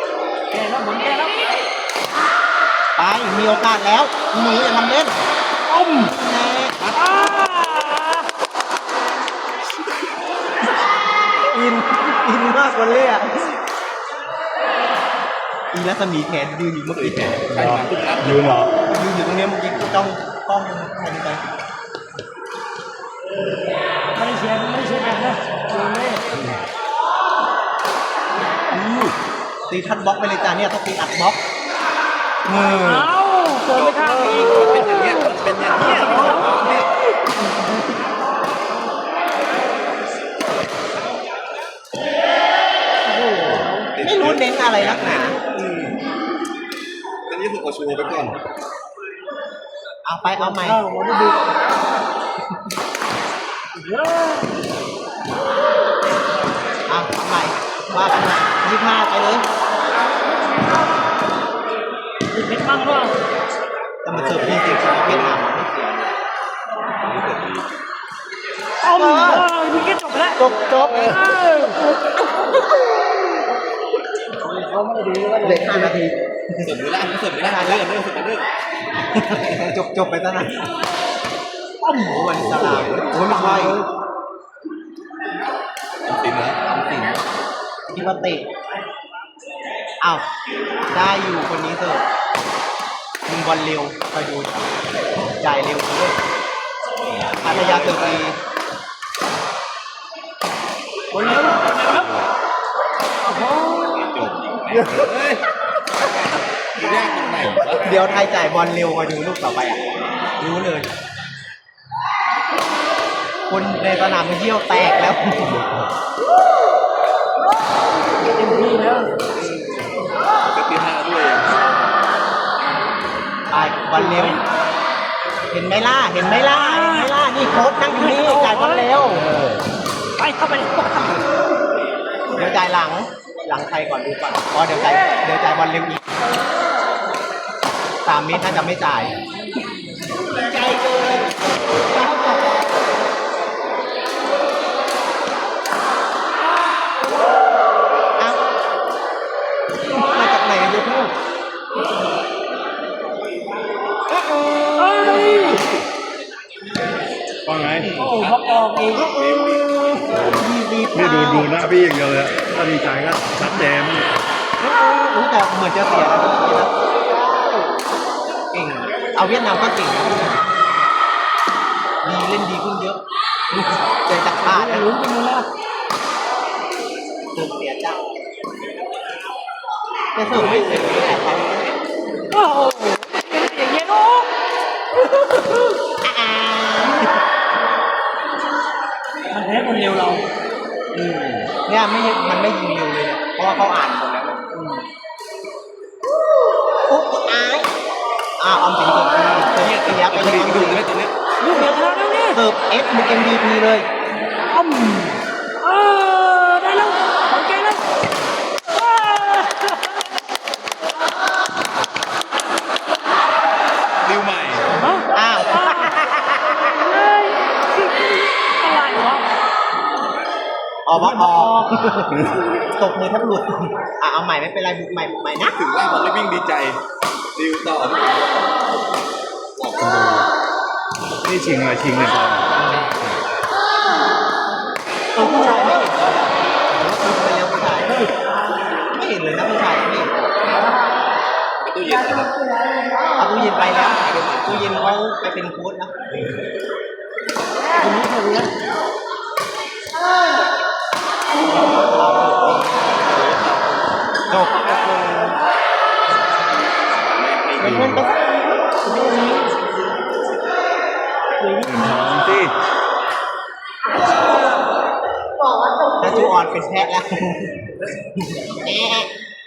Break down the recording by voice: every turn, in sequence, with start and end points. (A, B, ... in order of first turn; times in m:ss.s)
0:00.5-0:01.4 A
0:03.0-0:05.2 B
0:05.7-0:06.1 A
0:06.0-0:06.8 B
0:06.8-0:07.2 C
0:07.0-0:08.2 A
0:11.3-0:13.6 B
0:15.7-0:17.4 B
0:16.9-0:18.8 C
0:17.4-0:18.7 D
0:18.8-0:21.4 B
0:24.2-0:26.2 A
0:28.7-0:29.1 C
0:29.7-0:31.4 B
0:32.4-0:33.1 B
0:32.8-0:35.1 A
0:33.6-0:36.9 C
0:43.2-0:43.8 A
0:43.3-0:46.0 C
0:44.0-0:45.4 B
0:47.2-0:48.4 C
0:50.0-0:50.9 B
0:50.5-0:51.3 A
0:54.1-0:54.3 A
0:56.9-0:59.4 B
1:02.3-1:03.1 A
1:04.0-1:06.2 B
1:04.1-1:05.4 C
1:07.0-1:07.7 C
1:08.8-1:11.8 A
1:08.8-1:09.5 B
1:10.4-1:11.2 B
1:14.7-1:15.5 A
1:15.4-1:17.8 B
1:16.6-1:18.5 C
1:19.0-1:20.6 B
1:21.9-1:23.8 B
1:22.3-1:23.7 C
1:26.0-1:27.2 C
1:27.9-1:28.5 B
1:30.9-1:32.0 B
1:33.3-1:34.7 B
1:35.4-1:36.2 B
1:37.1-1:38.2 C
1:37.4-1:38.4 B
1:41.1-1:42.3 C
1:41.1-1:42.1 A
1:43.3-1:43.8 A
1:43.8-1:45.4 C
1:46.7-1:48.0 C
1:47.7-1:50.9 B
1:53.5-1:55.7 B
1:58.3-1:59.1 A
1:59.3-2:01.6 C
2:03.5-2:04.4 B
2:04.0-2:04.4 A
2:05.5-2:09.3 B
2:06.4-2:07.1 A
2:07.9-2:08.9 A
2:09.1-2:09.6 D
2:10.2-2:11.2 A
2:12.3-2:16.2 B
2:18.0-2:19.1 B
2:28.2-2:28.4 B
2:29.9-2:31.1 B
2:34.8-2:35.6 A
2:35.4-2:35.8 C
2:37.4-2:37.9 D
2:37.7-2:40.0 C
2:38.0-2:39.1 A
2:38.9-2:41.5 B
2:40.1-2:44.1 D
2:44.6-2:46.7 B
2:48.5-2:50.4 B
2:52.0-2:54.9 B
2:54.4-2:55.4 A
2:57.3-2:58.0 B
3:00.1-3:01.6 B
3:00.3-3:01.7 C
3:02.3-3:04.3 A
3:05.9-3:07.2 B
3:09.3-3:10.2 A
3:11.0-3:14.4 B
3:16.8-3:17.7 B
3:18.4-3:20.9 B
3:19.3-3:21.1 C
3:21.4-3:22.4 A
3:22.3-3:23.9 B
3:24.5-3:27.8 A
3:28.7-3:30.0 A
3:34.0-3:34.7 C
3:34.7-3:36.0 A
3:35.1-3:36.9 B
3:36.7-3:39.2 A
3:40.8-3:45.6 B
3:40.9-3:41.7 A
3:45.4-3:46.8 C
3:47.4-3:48.1 C
3:49.6-3:49.9 C
3:49.8-3:50.2 D
3:51.2-3:52.8 D
3:55.1-3:55.9 B
3:55.2-3:55.7 A
3:55.8-3:56.1 C
3:56.7-3:58.0 B
3:58.9-4:00.3 B
4:01.6-4:02.3 C
4:03.2-4:05.9 B
4:03.7-4:04.9 C
4:07.8-4:08.5 A
4:11.9-4:13.1 B
4:13.0-4:13.7 C
4:14.3-4:14.8 B
4:14.9-4:15.3 A
4:16.9-4:17.8 C
4:17.6-4:18.1 B
4:17.6-4:18.1 D
4:18.8-4:19.5 A
4:21.4-4:22.2 A
4:21.6-4:22.5 D
4:26.0-4:29.1 B